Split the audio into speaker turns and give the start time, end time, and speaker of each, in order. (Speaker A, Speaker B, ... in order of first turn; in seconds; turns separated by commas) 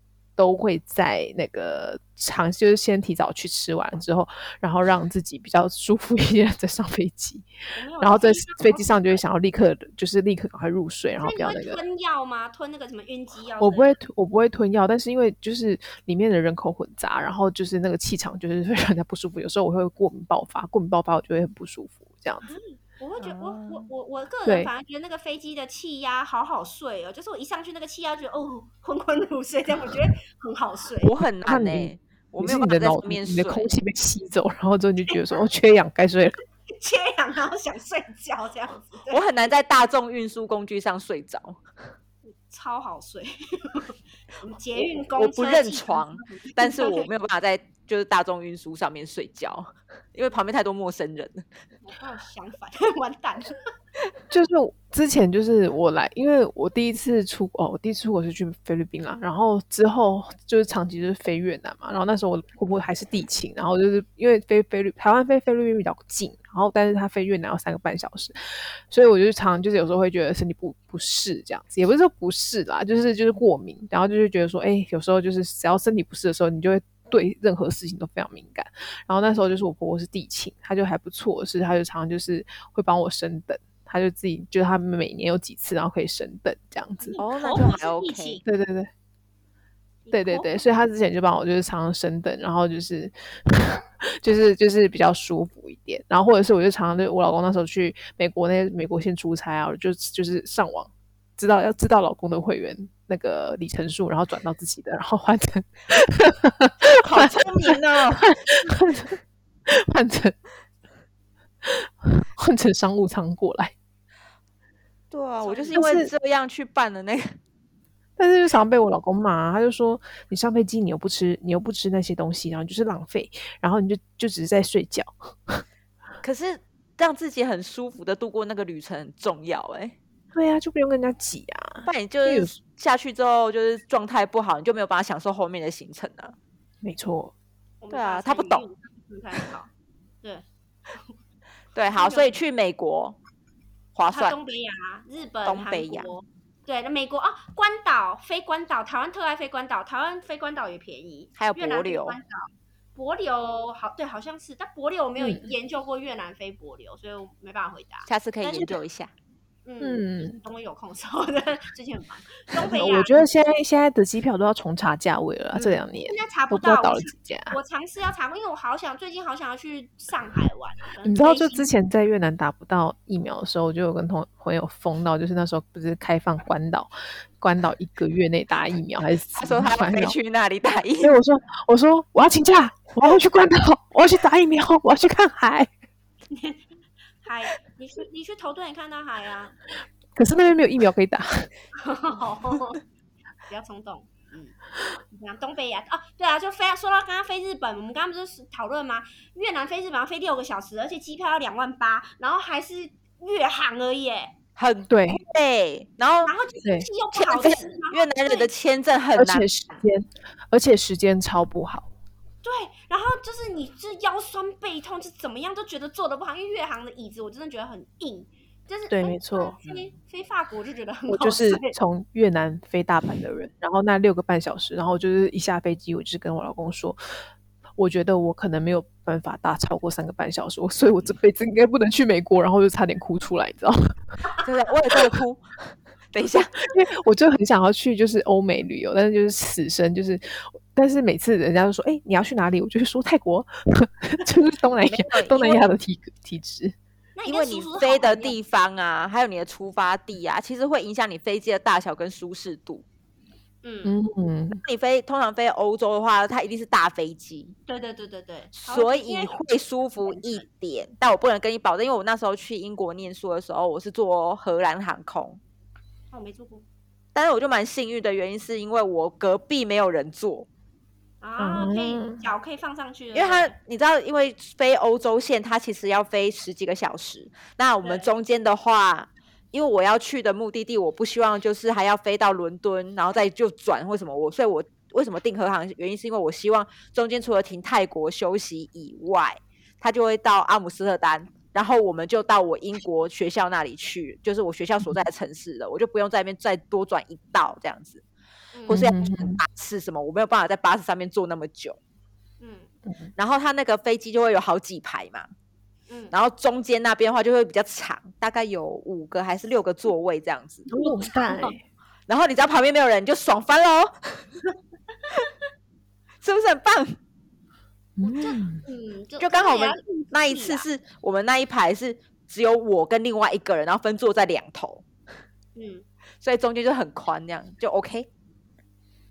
Speaker A: 0.4-7.5, Speaker B: 7.8-9.2, Speaker A: 8.0-11.8, Speaker B: 11.2-14.0, Speaker A: 13.6-22.5, Speaker B: 22.5-31.1, Speaker C: 23.2-23.9, Speaker A: 24.5-24.7, Speaker C: 31.0-33.7, Speaker A: 31.5-36.4, Speaker B: 36.8-39.2, Speaker C: 39.1-41.6, Speaker B: 42.5-47.1, Speaker C: 44.8-51.5, Speaker B: 51.8-53.6, Speaker A: 54.3-87.2, Speaker B: 87.0-88.4, Speaker C: 87.2-88.4, Speaker A: 88.5-88.9, Speaker B: 90.1-90.6, Speaker A: 90.1-109.2, Speaker C: 106.9-108.4, Speaker A: 109.7-110.4, Speaker A: 111.6-113.7, Speaker C: 115.1-117.4, Speaker B: 115.4-115.8, Speaker A: 115.7-116.1, Speaker A: 118.2-125.6, Speaker C: 126.2-130.0, Speaker A: 130.3-132.5, Speaker C: 131.9-136.4, Speaker A: 136.8-137.3, Speaker B: 137.8-139.7, Speaker C: 137.9-138.6, Speaker C: 141.8-143.2, Speaker B: 141.9-142.3, Speaker C: 143.9-144.4, Speaker B: 144.1-158.8, Speaker C: 145.4-146.1, Speaker C: 151.4-152.2, Speaker C: 158.1-159.1, Speaker B: 159.7-163.2, Speaker A: 159.8-160.4, Speaker A: 162.7-167.6, Speaker C: 165.6-165.8, Speaker B: 166.1-171.7, Speaker A: 171.0-180.2, Speaker C: 179.4-181.2, Speaker A: 181.0-185.7, Speaker B: 186.3-186.6, Speaker B: 187.2-189.6, Speaker A: 190.2-191.5, Speaker B: 191.8-192.8, Speaker B: 193.5-194.6, Speaker B: 195.1-204.3, Speaker C: 204.6-206.3, Speaker A: 204.9-205.2, Speaker B: 206.2-208.5, Speaker C: 207.1-209.5, Speaker A: 209.2-211.9, Speaker B: 212.4-221.8, Speaker A: 218.9-219.6, Speaker A: 221.1-227.0, Speaker A: 227.8-233.9, Speaker C: 234.4-235.5, Speaker C: 236.1-236.6, Speaker A: 236.7-246.8, Speaker C: 244.8-245.7, Speaker B: 247.2-248.4, Speaker C: 247.3-252.8, Speaker B: 253.6-254.0, Speaker A: 253.8-254.6, Speaker C: 254.6-257.6, Speaker B: 257.7-259.5, Speaker C: 258.5-265.4, Speaker B: 260.0-260.5, Speaker B: 266.1-266.6, Speaker C: 267.1-270.5, Speaker B: 271.2-273.5, Speaker A: 271.4-272.2, Speaker C: 273.1-298.0, Speaker B: 277.8-278.1, Speaker B: 298.5-298.9, Speaker C: 298.7-301.8, Speaker A: 298.7-299.4, Speaker B: 302.4-302.7, Speaker C: 303.2-305.3, Speaker B: 305.9-306.1, Speaker C: 306.1-310.7, Speaker A: 310.7-311.6, Speaker B: 310.7-311.6, Speaker C: 312.1-314.2, Speaker C: 316.2-317.0, Speaker A: 318.0-318.6, Speaker B: 318.0-320.7, Speaker C: 319.2-324.8, Speaker B: 325.6-325.9, Speaker C: 326.2-328.1